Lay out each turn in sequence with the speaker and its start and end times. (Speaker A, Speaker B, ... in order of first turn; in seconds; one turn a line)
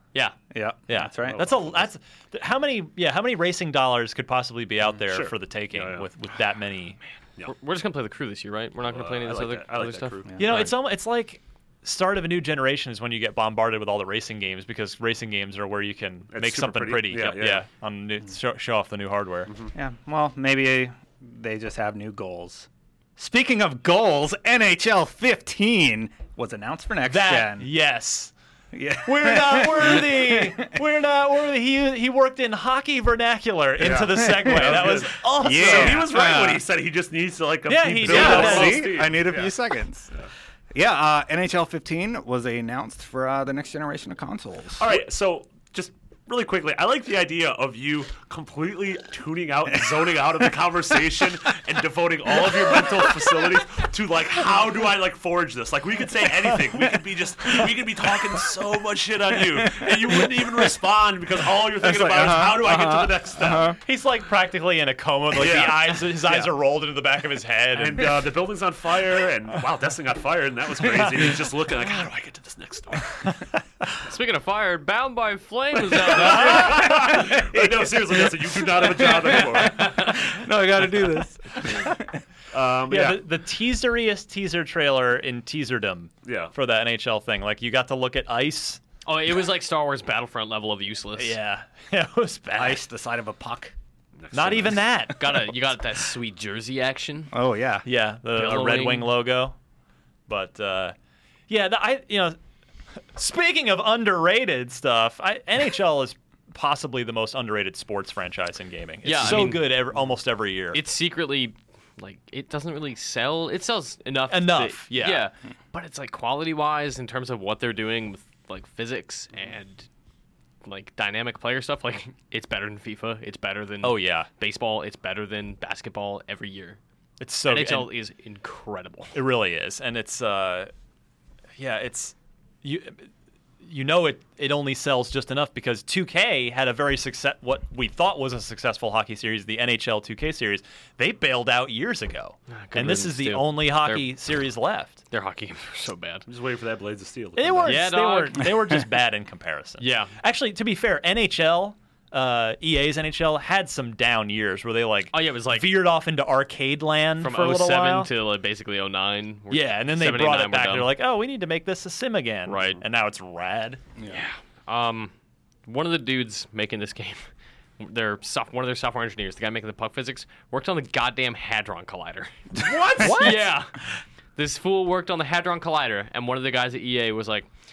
Speaker A: 0.5-1.8
Speaker B: 0.9-7.0
Speaker C: 1.3-1.8
Speaker C: 4.9-6.1
Speaker D: 7.4-10.2
Speaker C: 8.8-10.7
Speaker A: 10.2-10.7
Speaker B: 10.4-19.5
Speaker C: 16.3-17.6
Speaker C: 19.5-19.7
Speaker A: 19.7-27.7
Speaker B: 27.1-28.3
Speaker A: 28.7-30.7
Speaker B: 29.0-36.2
Speaker C: 33.8-39.6
Speaker A: 34.0-36.6
Speaker B: 37.6-39.1
Speaker A: 38.0-40.1
Speaker A: 40.7-45.0
Speaker C: 44.8-63.7
Speaker A: 59.6-60.7
Speaker A: 61.8-63.8
Speaker B: 63.8-68.3
Speaker C: 65.3-66.5
Speaker C: 67.7-73.2
Speaker D: 74.0-77.0
Speaker C: 75.9-80.0
Speaker B: 76.5-77.1
Speaker A: 76.7-82.0
Speaker D: 79.6-79.9
Speaker C: 82.5-83.2
Speaker B: 82.9-88.8
Speaker C: 86.2-86.5
Speaker D: 89.0-91.4
Speaker B: 91.2-92.8
Speaker A: 92.5-93.7
Speaker C: 94.2-94.9
Speaker B: 94.3-95.5
Speaker D: 95.1-97.3
Speaker A: 97.3-97.8
Speaker B: 97.8-99.5
Speaker D: 98.3-99.2
Speaker B: 100.3-100.9
Speaker B: 101.5-102.4
Speaker B: 103.1-110.8
Speaker D: 109.0-109.8
Speaker D: 110.7-119.9
Speaker B: 114.3-115.3
Speaker D: 120.6-126.8
Speaker B: 123.8-124.3
Speaker B: 127.2-127.9
Speaker D: 127.4-129.1
Speaker B: 129.1-130.7
Speaker B: 131.6-133.1
Speaker B: 133.6-145.0
Speaker D: 142.5-144.1
Speaker D: 145.1-146.2
Speaker C: 146.3-147.9
Speaker B: 147.3-158.1
Speaker D: 147.7-148.5
Speaker D: 149.8-150.1
Speaker D: 155.1-155.9
Speaker D: 157.2-160.9
Speaker B: 159.5-163.8
Speaker D: 162.4-162.8
Speaker D: 164.1-165.1
Speaker D: 165.7-167.2
Speaker D: 167.8-173.7
Speaker A: 172.6-173.3
Speaker B: 173.0-173.4
Speaker D: 174.3-177.5